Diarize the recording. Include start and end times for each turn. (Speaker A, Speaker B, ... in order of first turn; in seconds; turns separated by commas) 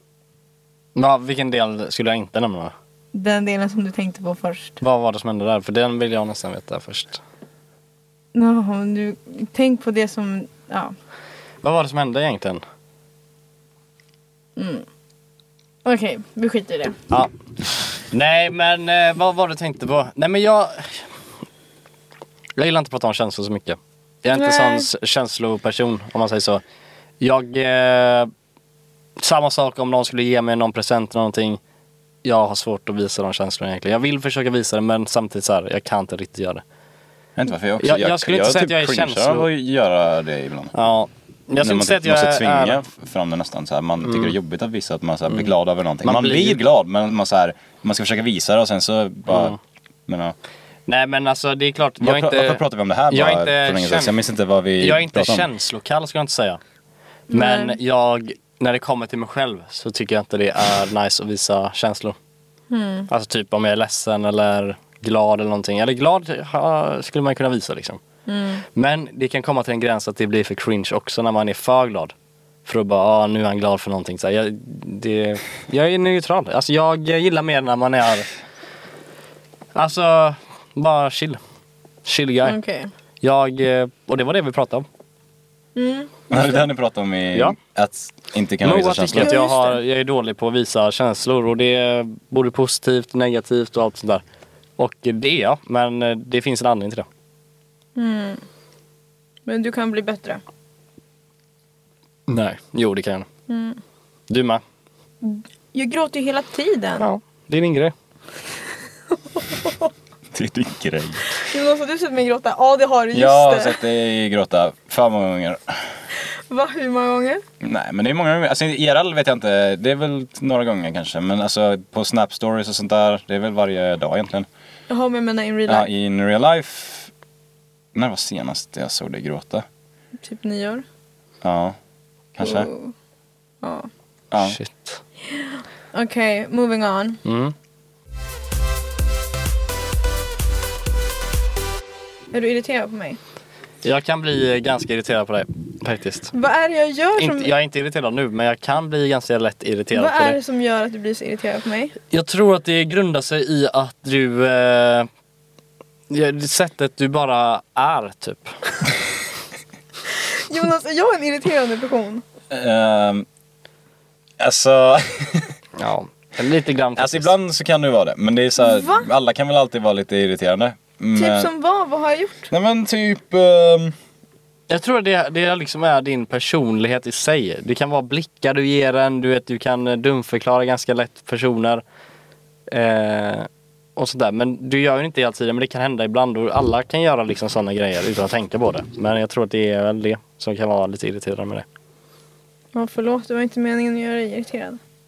Speaker A: 0.9-2.7, Speaker B: 3.1-4.8, Speaker A: 4.8-7.2, Speaker B: 8.3-10.9, Speaker A: 11.6-12.6, Speaker B: 14.6-14.8, Speaker B: 15.8-17.0, Speaker A: 18.0-21.1, Speaker A: 22.6-26.6, Speaker B: 24.3-24.9, Speaker A: 27.2-28.3, Speaker A: 29.2-31.6, Speaker A: 32.2-36.6, Speaker C: 37.4-40.7, Speaker A: 37.8-39.5, Speaker A: 40.7-42.9, Speaker C: 41.6-49.6, Speaker A: 44.0-44.3, Speaker A: 46.0-46.6, Speaker A: 49.3-49.6, Speaker C: 50.1-50.4, Speaker A: 50.9-54.2, Speaker C: 52.0-55.5, Speaker A: 54.8-56.6, Speaker B: 57.3-57.8, Speaker A: 57.3-62.2, Speaker B: 62.7-63.1, Speaker A: 63.1-68.0, Speaker B: 68.3-68.6, Speaker A: 68.8-72.1, Speaker A: 72.7-78.3, Speaker A: 79.8-81.4, Speaker A: 82.0-82.6, Speaker B: 82.4-82.9, Speaker A: 83.2-84.9, Speaker B: 85.8-86.6, Speaker C: 86.3-89.3, Speaker A: 88.6-94.2, Speaker B: 89.2-89.8, Speaker A: 94.8-97.1, Speaker B: 98.0-98.4, Speaker B: 99.5-100.4, Speaker A: 102.3-103.3, Speaker B: 103.5-103.8, Speaker A: 104.3-104.6, Speaker B: 105.2-107.1, Speaker A: 107.0-107.9, Speaker B: 109.2-109.9, Speaker C: 110.3-111.3, Speaker B: 111.5-113.8, Speaker C: 113.1-115.8, Speaker B: 116.5-117.4, Speaker C: 117.6-124.5, Speaker B: 124.9-125.9, Speaker C: 125.7-127.1, Speaker C: 128.0-129.7, Speaker B: 130.2-130.8, Speaker C: 131.4-131.8, Speaker C: 132.4-132.7, Speaker B: 132.4-132.9, Speaker B: 133.6-133.9, Speaker C: 134.3-134.6, Speaker A: 134.4-135.0, Speaker B: 135.3-137.2, Speaker A: 137.2-137.5, Speaker B: 142.3-143.2, Speaker A: 143.8-146.3, Speaker B: 146.3-147.5, Speaker A: 147.2-150.4, Speaker B: 149.9-152.0, Speaker A: 152.1-155.1, Speaker A: 156.1-158.6, Speaker B: 160.4-162.2, Speaker C: 162.5-163.3, Speaker C: 164.4-165.5, Speaker A: 165.8-167.3, Speaker C: 167.0-171.5, Speaker B: 168.6-169.1, Speaker B: 171.2-172.5, Speaker C: 172.5-174.0, Speaker A: 174.7-181.8, Speaker A: 182.7-191.7, Speaker B: 192.7-194.8